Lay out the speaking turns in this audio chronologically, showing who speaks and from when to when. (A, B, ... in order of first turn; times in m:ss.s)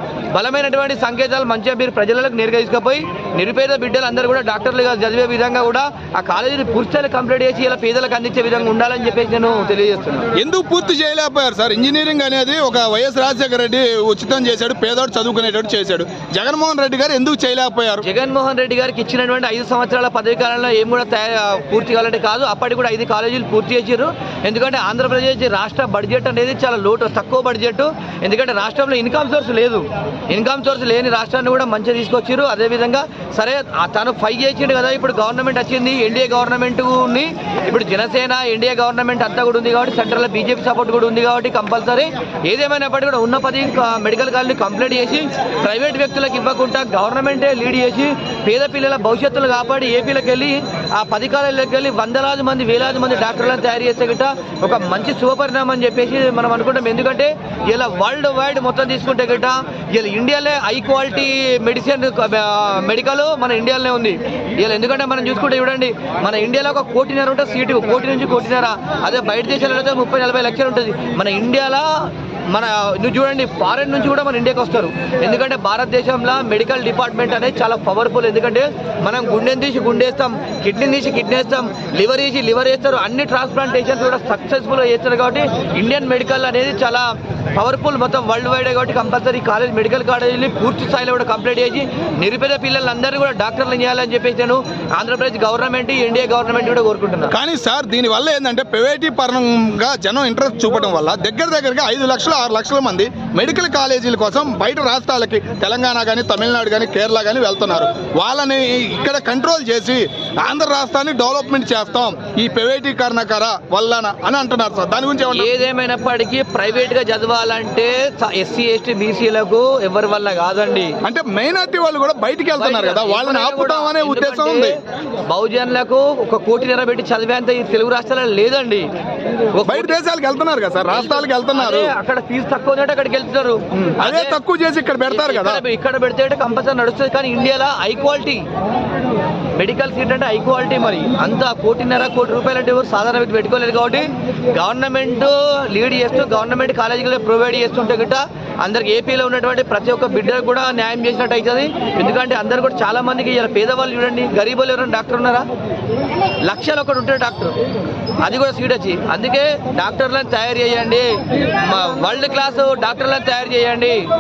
0:00.3-0:10.3 A
0:10.4-0:18.0 B
0:18.0-1:37.3 A
1:37.3-1:55.5 B
1:55.3-2:00.9 A
2:01.0-2:04.8 B
2:02.6-2:08.9 A
2:09.5-2:09.9 A
2:09.6-2:11.9 B
2:10.9-2:14.4 A
2:13.7-2:15.6 B
2:15.1-2:18.4 A
2:19.6-2:35.5 A
2:36.4-2:37.5 A
2:38.2-2:44.0 A